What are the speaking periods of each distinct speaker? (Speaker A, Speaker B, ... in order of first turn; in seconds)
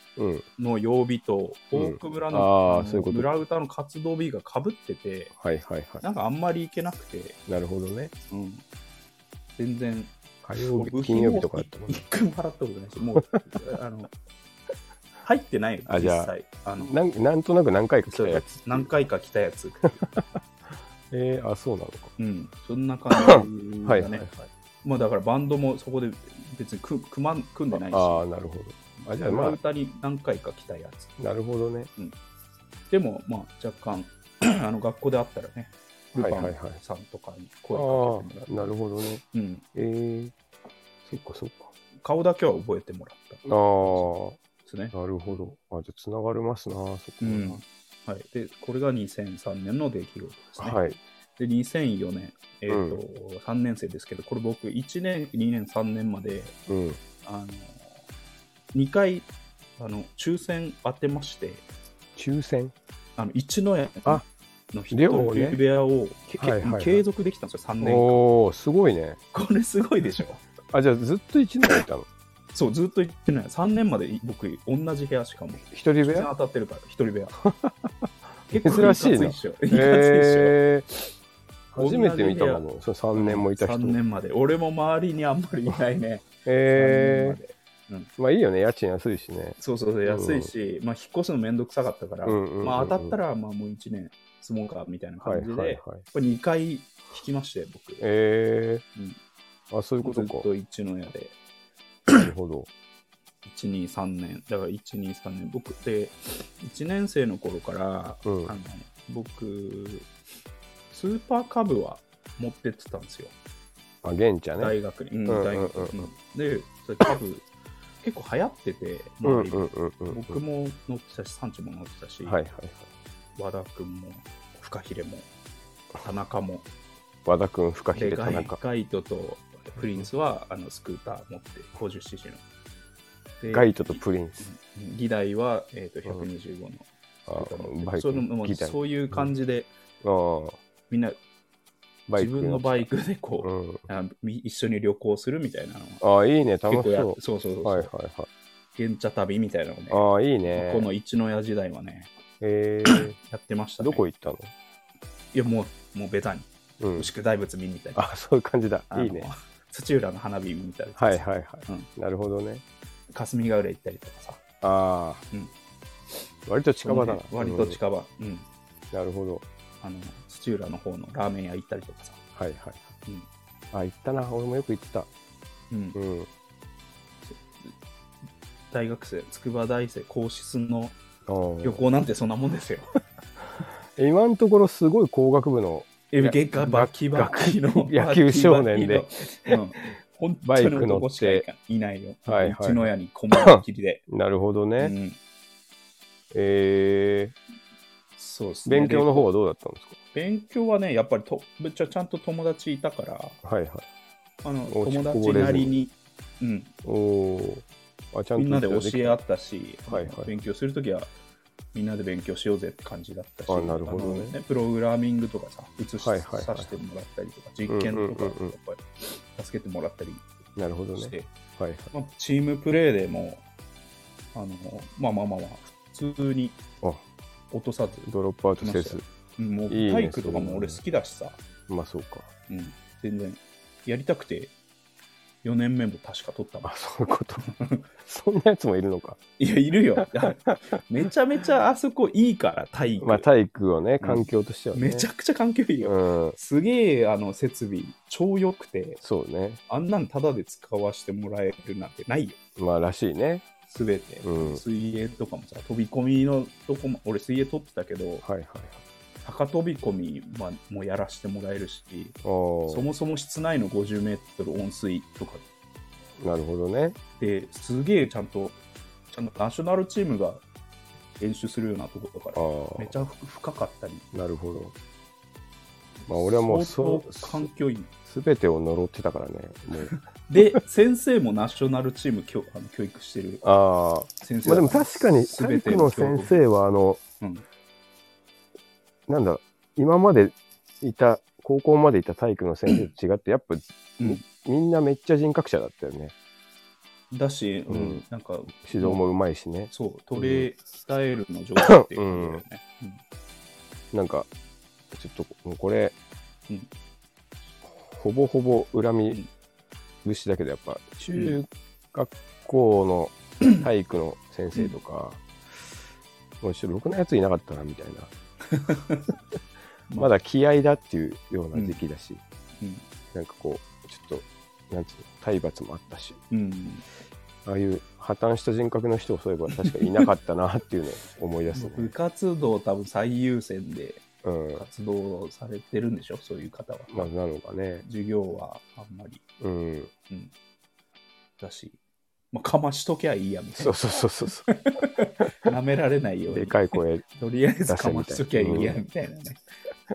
Speaker A: 0.1-0.4, 1.7-3.3, 5.3-6.0, 7.5-8.1, 10.4-12.0, 15.9-18.9, 21.1-22.1, 23.2-24.3, 27.7-29.6, 31.2-31.9, 36.1-36.8, 37.7-39.2, 39.7-40.3, 41.0-41.7, 43.4-44.4, 44.9-47.6, 50.6-51.0, 52.7-53.0, 56.7-57.0, 62.1-62.7, 64.9-65.6, 66.4-67.0, 67.8-69.2, 70.7-72.1, 75.7-76.3, 77.4-77.7, 78.5-80.9, 81.7-84.0, 86.4-87.4, 88.2-90.5, 92.2-93.2, 95.2-96.0, 98.0-98.8, 99.7-100.5, 102.1-102.7, 108.2-108.5, 114.0-116.1, 119.2-120.4, 122.2-122.9, 127.2-128.6, 133.5-134.4, 137.3-139.3, 140.0-140.6, 142.1-142.9, 143.4-143.8, 146.0-148.3, 149.9-150.9, 152.4-153.2, 153.8-154.5, 156.8-157.1, 157.9-159.3, 160.9-162.6, 164.6-165.2, 166.4-167.8, 168.9-169.4, 172.3-172.9, 173.7-175.1, 175.9-176.3, 181.3-181.8, 183.9-189.6, 190.4-191.4, 192.2-194.9, 196.3-197.3, 198.7-200.0, 203.4-203.8, 204.7-205.7, 206.8-209.2, 209.9-210.3, 213.5-214.3, 216.0-216.7, 217.7-218.5, 220.6-221.9, 228.1-229.0, 229.7-230.8, 231.7-232.3, 236.6-237.4, 238.0-239.2, 243.0-245.1, 245.8-246.4, 249.0-249.6, 252.6-253.4, 254.2-254.6, 258.2-258.8, 262.2-262.9, 266.2-267.0, 272.3-272.9, 274.1-274.7, 276.1-277.5, 278.1-279.9, 283.4-287.0, 289.1-296.1, 297.7-298.0, 298.6-300.5, 301.6-302.4, 303.9-304.3, 304.9-305.9, 307.8-309.2, 310.0-315.2, 316.4-318.1, 320.0-322.2, 323.1-326.2, 327.4-331.9, 334.2-334.6, 336.9-337.8, 339.4-339.9, 343.6-344.5, 346.3-347.0, 347.6-348.8
Speaker B: 0.6-5.3, 6.0-7.4, 8.3-8.6, 9.6-14.1, 15.2-16.9, 18.1-20.0, 22.2-28.2, 29.0-31.2, 32.9-38.7, 39.3-39.6, 42.0-44.1, 44.6-45.5, 47.2-50.8, 51.4-56.6, 57.2-58.0, 58.7-61.6, 63.2-68.2, 69.3-70.4, 72.5-77.4, 78.5-80.6, 81.8-88.1, 89.6-98.0, 100.0-101.3, 103.4-110.1, 110.9-113.3, 114.6-117.5, 118.0-122.4, 123.3-125.3, 126.0-126.7, 127.9-132.4, 133.4-139.7, 140.9-141.2, 142.2-146.0, 146.7-147.9, 148.7-152.1, 152.8-154.0, 155.3-158.0, 158.9-161.9, 163.1-164.4, 166.8-168.4, 169.8-172.2, 175.7-176.0, 177.2-177.7, 178.7-181.0, 181.6-182.9, 186.1-194.0, 194.8-195.2, 198.2-199.3, 200.1-203.4, 204.4-206.7, 208.3-211.1, 211.7-220.2, 220.9-221.3, 221.9-223.4, 224.3-226.6, 227.5-231.4, 232.5-234.5, 235.4-236.7, 237.4-237.8, 239.4-243.3, 244.0-249.0, 249.7-252.4, 253.7-258.2, 259.2-262.1, 262.7-265.4, 267.2-268.6, 269.1-270.4, 271.2-274.1, 276.1-277.9, 279.9-283.4, 284.2-286.4, 294.0-294.2, 297.1-299.0, 299.7-303.0, 311.1-311.4, 318.5-319.1, 321.5-321.8, 326.3-326.8, 331.5-337.1, 337.8-339.2, 341.4-341.8, 342.3-343.8, 344.5-349.4